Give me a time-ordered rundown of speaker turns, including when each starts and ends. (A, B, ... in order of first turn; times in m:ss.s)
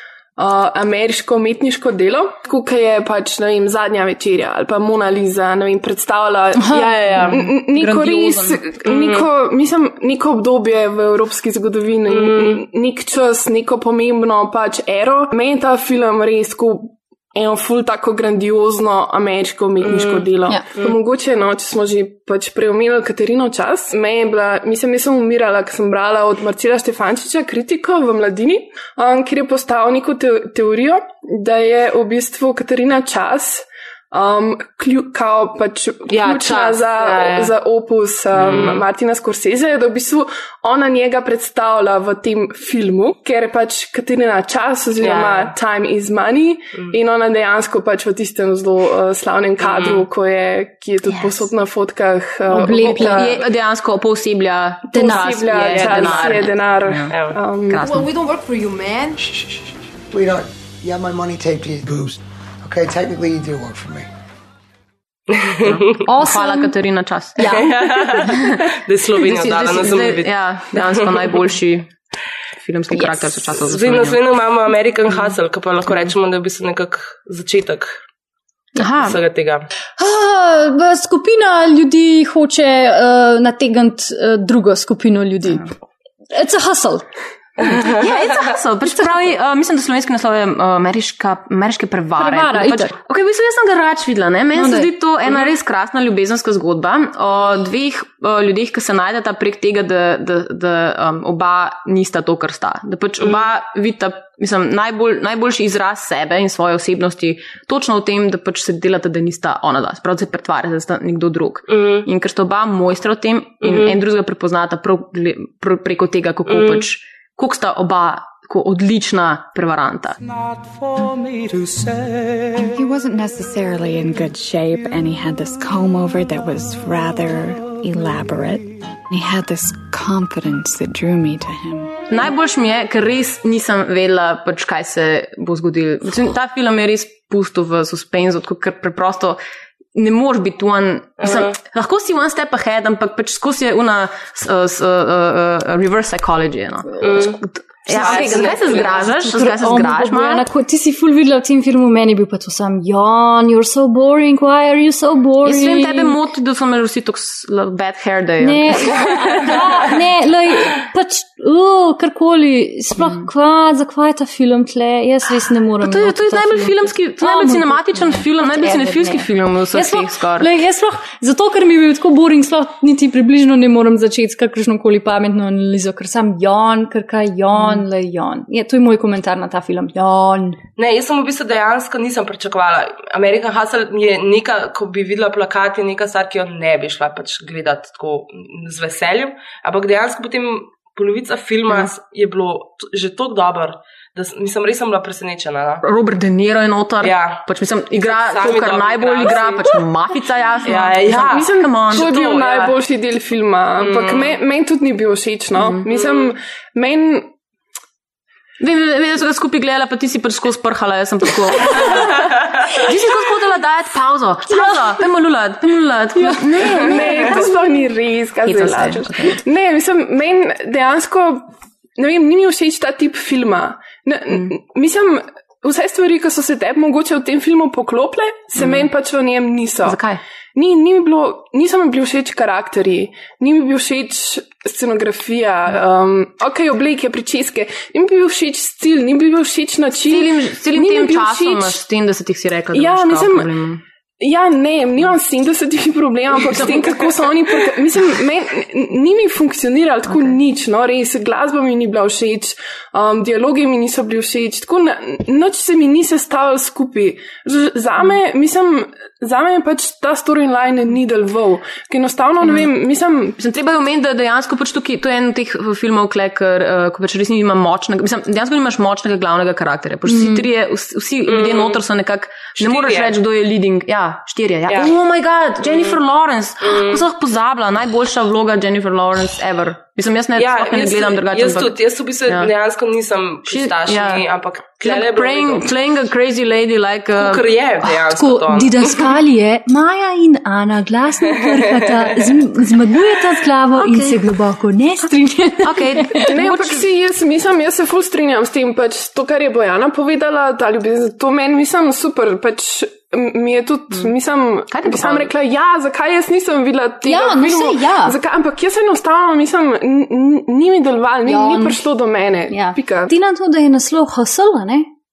0:00.4-0:53.4 A
0:06.6-0:06.9 B
0:06.7-0:07.5 C
0:07.7-0:08.6 D
0:08.8-0:09.3 C
0:12.1-0:12.6 C
0:19.8-0:21.0 C
0:36.1-0:37.5 C
0:38.4-0:38.8 C
0:45.0-0:45.5 C
0:49.6-0:50.1 C
0:52.5-0:53.3 B
0:52.6-0:57.2 D
0:54.9-0:56.2 B
0:55.0-0:57.9 A
0:57.1-0:57.4 C
0:57.7-0:59.1 D
1:00.1-1:04.1 E
1:05.3-1:06.1 C
1:05.6-1:08.6 D
1:06.1-1:06.7 B
1:07.4-1:07.7 B
1:07.5-1:11.4 C
1:09.2-1:11.9 D
1:12.6-1:14.2 D
1:13.6-1:18.0 C
1:18.8-1:19.2 D
1:18.8-1:19.7 C
1:20.0-1:25.6 B
1:26.3-1:27.0 B
1:27.6-1:28.0 C
1:27.7-2:00.2 D
1:32.2-1:32.9 B
1:34.6-1:34.9 B
1:51.7-1:52.1 C
1:53.6-1:54.0 C
1:56.5-1:56.8 C
2:02.5-2:12.0 F
2:12.1-2:19.4 D
2:20.0-2:30.5 D
2:21.2-2:21.6 C
2:27.0-2:29.0 C
2:27.9-2:36.2 B
2:35.4-2:39.1 D
2:38.4-3:00.6 B
2:45.8-2:50.5 D
2:57.5-2:57.8 D
3:00.8-3:15.8 C
3:15.8-3:22.1 D
3:17.0-3:17.4 C
3:18.0-3:19.7 C
3:20.6-3:22.7 C
3:21.2-3:27.3 A
3:23.8-3:24.4 C
3:25.9-3:26.3 C
3:28.6-3:37.8 D
3:36.2-3:50.0 A
3:38.4-3:39.4 D
3:48.6-3:48.9 D
3:49.8-3:50.2 D
3:50.6-4:01.8 A
4:00.0-4:03.8 D
4:02.7-4:03.5 A
4:04.2-4:23.4 A
4:06.4-4:07.2 D
4:10.1-4:10.4 D
4:23.4-4:42.5 D
4:30.1-4:30.4 B
4:31.3-4:31.8 C
4:32.6-4:33.2 C
4:35.7-4:36.0 C
4:36.6-4:37.0 C
4:40.4-4:45.7 C
4:43.5-4:44.3 D
4:44.8-4:47.4 D
4:47.2-4:49.1 C
4:48.0-4:56.3 B
4:53.8-4:54.3 D
4:55.6-4:56.9 D
4:56.2-5:13.1 A
5:04.7-5:05.3 D
5:07.0-5:08.2 B
5:11.3-5:11.8 B
5:12.5-5:14.9 B